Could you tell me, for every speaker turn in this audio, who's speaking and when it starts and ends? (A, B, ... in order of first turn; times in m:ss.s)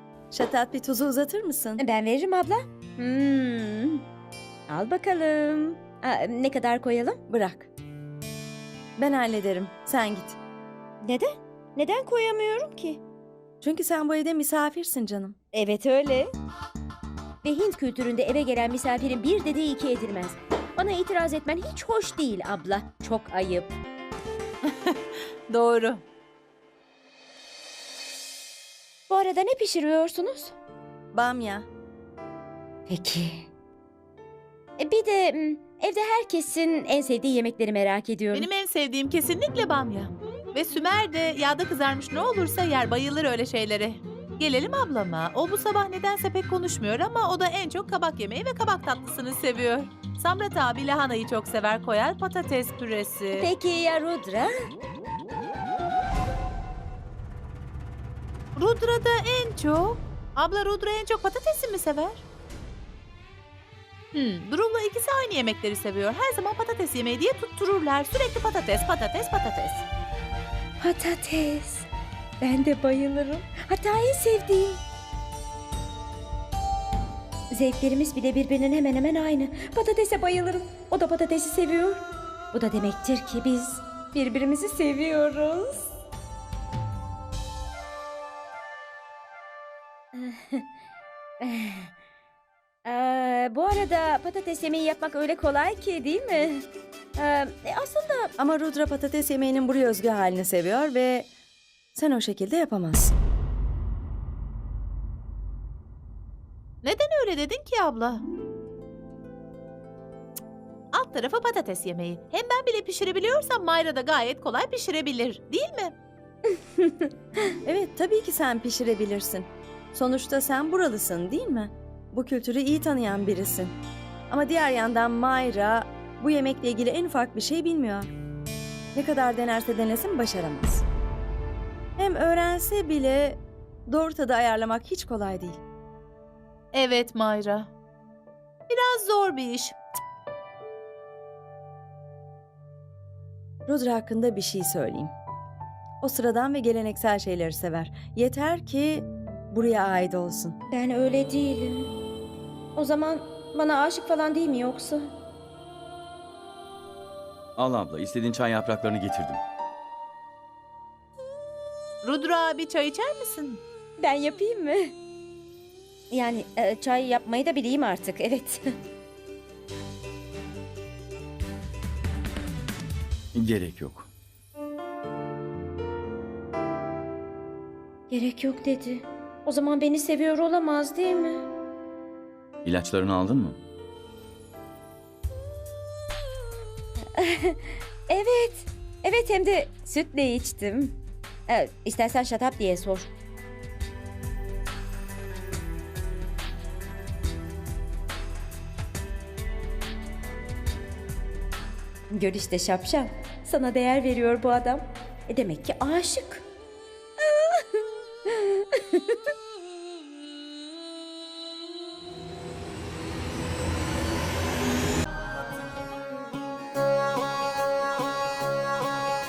0:00.3-0:01.8 A
0:01.8-0:04.0 B
0:04.7-0:07.2 B
0:07.3-0:07.7 A
0:09.0-0:10.4 A
0:11.0-0:13.0 B
0:13.6-0:15.4 A
0:15.5-0:16.3 B
0:17.4-0:23.7 B
0:24.6-0:26.0 C
0:29.1-0:30.6 B
0:31.1-0:31.7 A
0:32.9-0:33.5 B
0:34.8-0:38.5 B
0:38.3-0:53.5 C
0:53.4-0:54.5 B
0:58.6-1:02.2 C
1:04.1-1:09.8 C
1:10.8-1:11.9 B
1:12.4-1:14.8 B
1:17.5-1:25.9 B
1:30.1-1:30.7 B
1:31.4-1:31.9 B
1:32.8-1:38.3 B
1:38.4-1:41.3 A
1:41.9-1:43.1 A
1:46.8-1:48.2 C
1:50.9-1:55.9 C
1:56.8-1:57.1 B
1:57.6-2:03.8 A
2:04.3-2:08.1 A
2:09.0-2:10.8 A
2:12.0-2:15.6 A
2:16.7-2:17.7 C
2:18.7-2:19.8 C
2:23.7-2:25.1 A
2:26.0-2:30.6 A
2:30.7-2:31.9 B
2:32.8-2:35.1 B
2:37.6-2:39.4 D
2:42.0-2:43.6 C
2:44.0-2:44.9 B
2:46.1-2:48.6 B
2:53.3-2:54.1 D
2:58.1-3:01.5 B
3:02.6-3:03.6 D
3:07.2-3:13.1 B
3:22.1-3:26.4 B
3:27.2-3:29.2 B